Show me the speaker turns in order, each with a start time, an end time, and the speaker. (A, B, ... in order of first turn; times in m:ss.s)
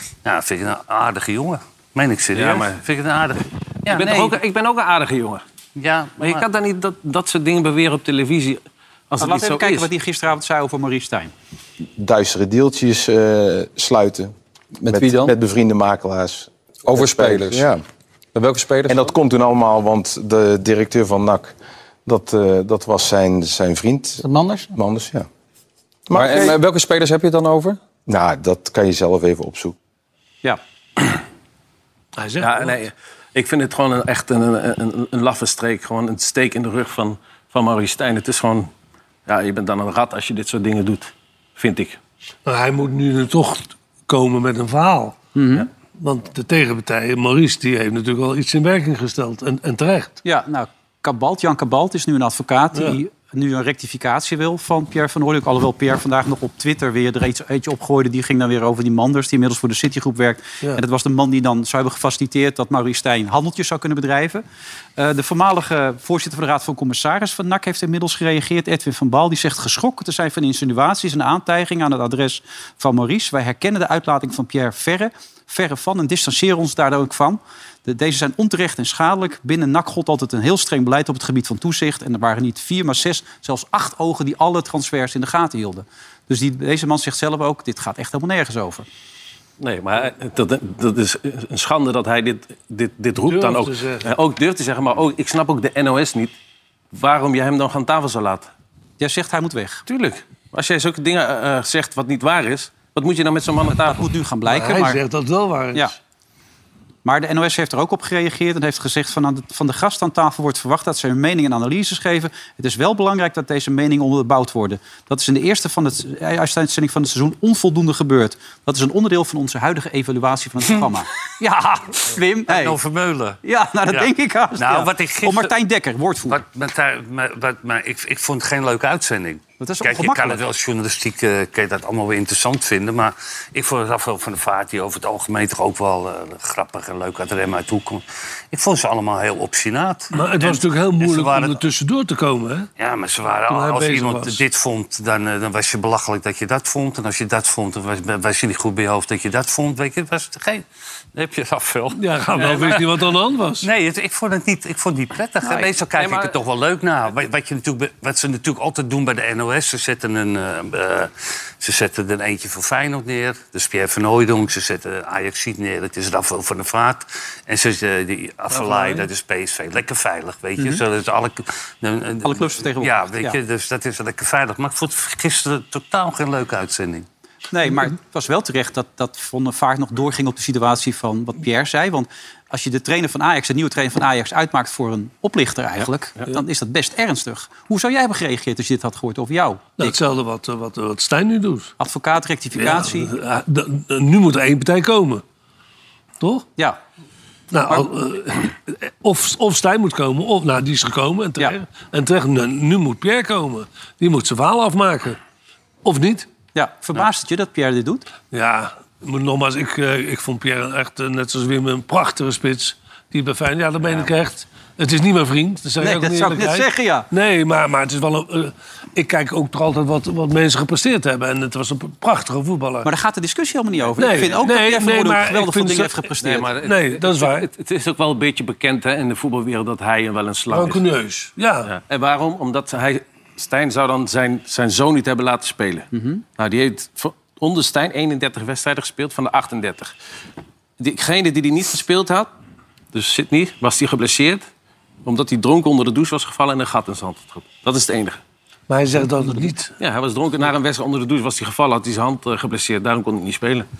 0:00.2-0:04.3 A
0:02.3-0:02.8 B
0:03.9-0:05.4 B
0:05.8-0:06.5 A
0:06.2-0:09.9 B
0:09.2-0:11.3 C
0:12.0-0:14.3 D
0:14.8-0:15.4 E
0:14.8-0:17.8 D
0:16.9-0:17.7 E
0:18.3-0:19.2 E
0:18.9-0:21.5 D
0:22.0-0:25.3 D
0:24.2-0:24.7 E
0:26.1-0:26.6 D
0:26.1-0:27.8 E
0:28.1-0:29.8 D
0:32.2-0:32.8 F
0:32.4-0:38.7 B
0:39.2-0:42.0 B
0:42.4-0:45.2 F
0:45.3-0:45.7 C
0:45.9-0:50.2 F
0:50.2-1:04.4 C
1:05.0-1:28.8 C
1:29.6-1:36.3 B
1:33.2-1:34.1 F
1:36.9-1:38.5 B
1:39.0-1:39.8 C
1:39.8-1:44.1 B
1:43.7-1:45.0 C
1:44.5-1:45.9 F
1:47.0-2:02.8 C
2:02.5-2:05.5 A
2:03.4-2:06.4 C
2:06.3-2:21.6 A
2:09.6-2:10.4 C
2:20.1-2:22.7 F
2:22.8-2:30.6 A
2:23.5-2:24.4 F
2:31.1-2:33.0 A
2:31.9-2:33.7 F
2:33.6-2:57.0 A
2:35.4-2:35.7 C
2:36.0-2:36.3 B
2:48.5-2:49.0 F
2:52.2-2:53.4 C
2:57.5-3:10.0 C
3:09.8-3:11.7 F
3:11.8-3:13.1 C
3:12.5-3:15.2 F
3:16.2-3:16.5 F
3:17.5-3:25.2 F
3:25.8-3:26.3 F
3:26.5-3:28.1 C
3:28.3-3:42.9 F
3:35.8-3:37.1 C
3:42.8-3:46.5 C
3:44.0-3:46.1 F
3:46.2-3:50.8 B
3:46.6-3:47.5 F
3:50.5-3:51.7 F
3:51.6-3:59.9 B
3:55.9-3:56.2 C
4:00.8-4:02.3 B
4:02.9-4:04.4 B
4:05.0-4:08.2 B
4:08.7-4:09.8 F
4:09.8-4:13.7 B